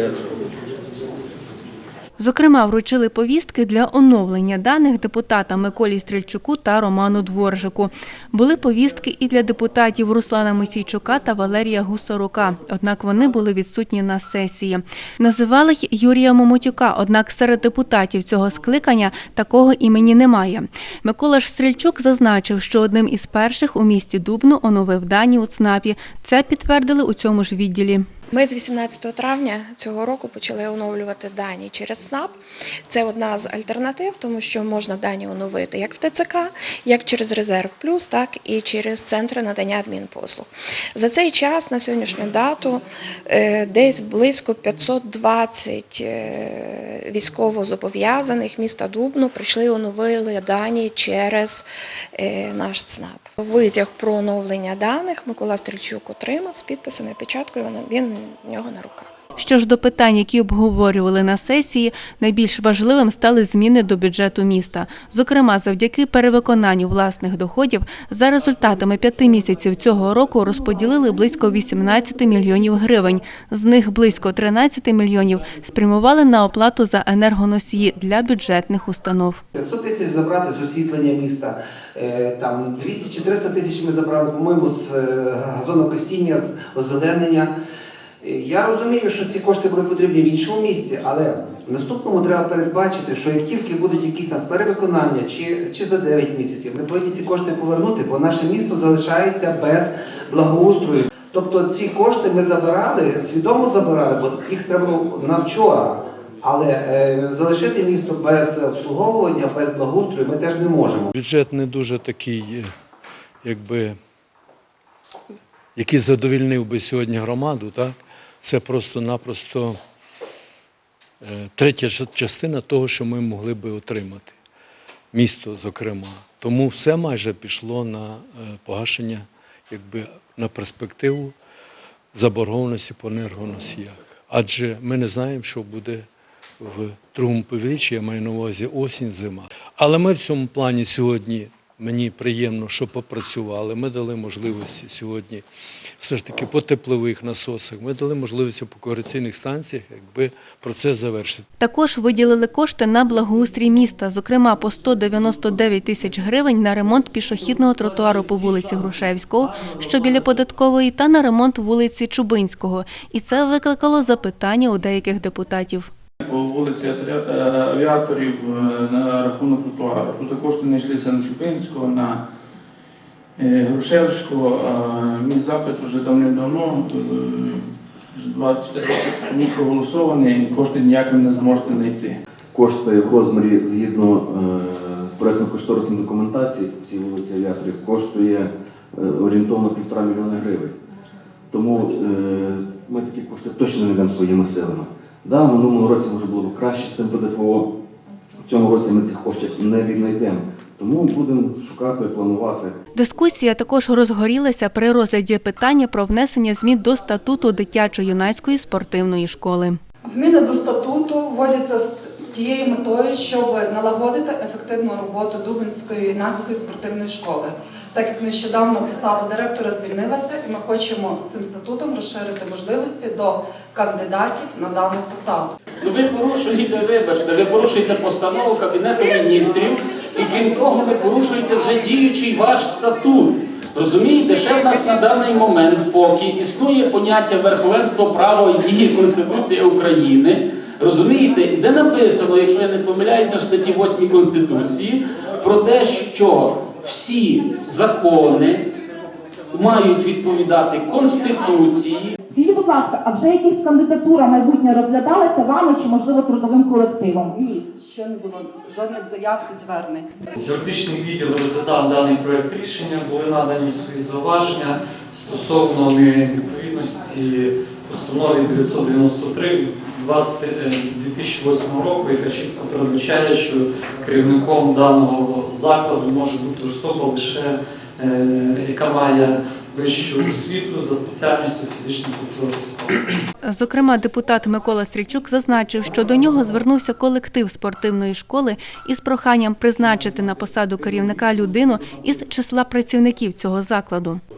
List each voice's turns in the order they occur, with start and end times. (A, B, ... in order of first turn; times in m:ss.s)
0:02.2-0:28.1 A
0:28.3-0:59.1 B
0:59.4-1:19.4 A
1:19.6-1:27.5 C
1:28.2-1:51.1 C
1:51.1-1:52.7 D
1:53.4-1:54.0 D
1:55.8-1:59.8 D
2:01.2-2:04.3 D
2:05.1-2:11.3 D
2:12.1-2:16.0 D
2:16.6-2:25.4 D
2:26.0-2:31.4 D
2:31.6-2:45.9 A
2:46.2-2:52.2 E
2:53.4-3:02.2 E
3:02.5-3:10.8 F
3:11.5-3:17.7 F
3:18.4-3:22.8 F
3:23.0-3:29.8 A
3:30.1-3:45.5 G
3:45.8-4:08.7 H
4:09.5-4:12.2 H
4:12.3-4:17.4 I
4:17.8-4:20.1 G
4:20.4-4:43.1 J
4:43.4-4:54.2 A